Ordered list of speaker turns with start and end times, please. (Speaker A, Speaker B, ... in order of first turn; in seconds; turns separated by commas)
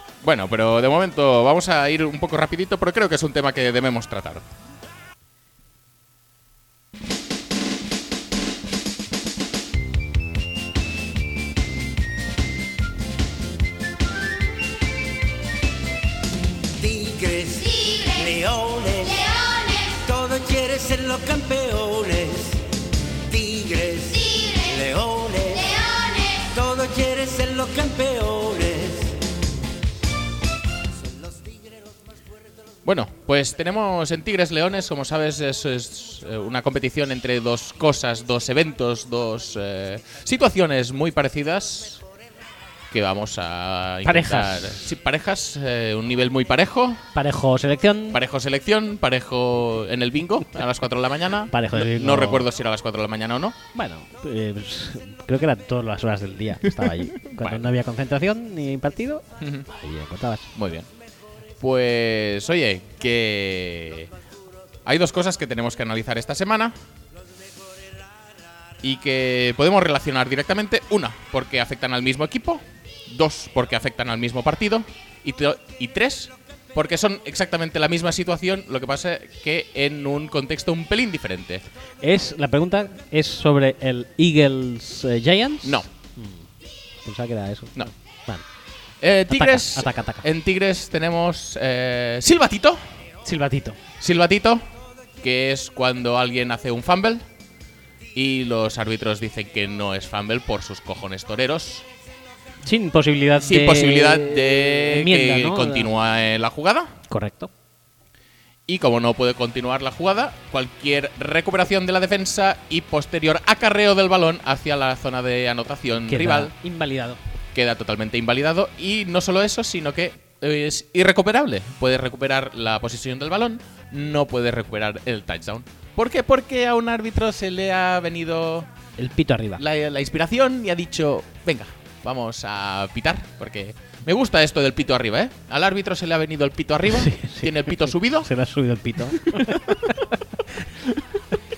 Speaker A: 0.2-4.5, Speaker B: 16.7-29.4, Speaker B: 31.2-31.6, Speaker A: 32.8-42.0, Speaker A: 42.9-47.0, Speaker C: 44.0-44.9, Speaker C: 47.1-48.2, Speaker A: 48.1-53.6, Speaker C: 51.5-52.5, Speaker C: 53.7-60.5, Speaker A: 56.6-57.7, Speaker A: 59.4-59.6, Speaker A: 60.5-60.9, Speaker A: 61.6-64.1, Speaker A: 64.8-66.7, Speaker A: 68.8-81.7, Speaker C: 82.0-86.5, Speaker C: 87.0-88.4, Speaker A: 89.0-92.9, Speaker C: 89.3-90.3, Speaker C: 93.2-93.8, Speaker A: 94.0-94.6, Speaker A: 95.2-97.2, Speaker A: 98.1-101.9, Speaker C: 102.6-105.9, Speaker A: 103.4-107.0, Speaker C: 107.1-107.5, Speaker A: 108.7-116.5, Speaker C: 116.1-117.2, Speaker A: 117.5-128.7, Speaker C: 129.0-129.6, Speaker A: 129.6-138.3, Speaker C: 136.9-140.7, Speaker A: 139.2-139.8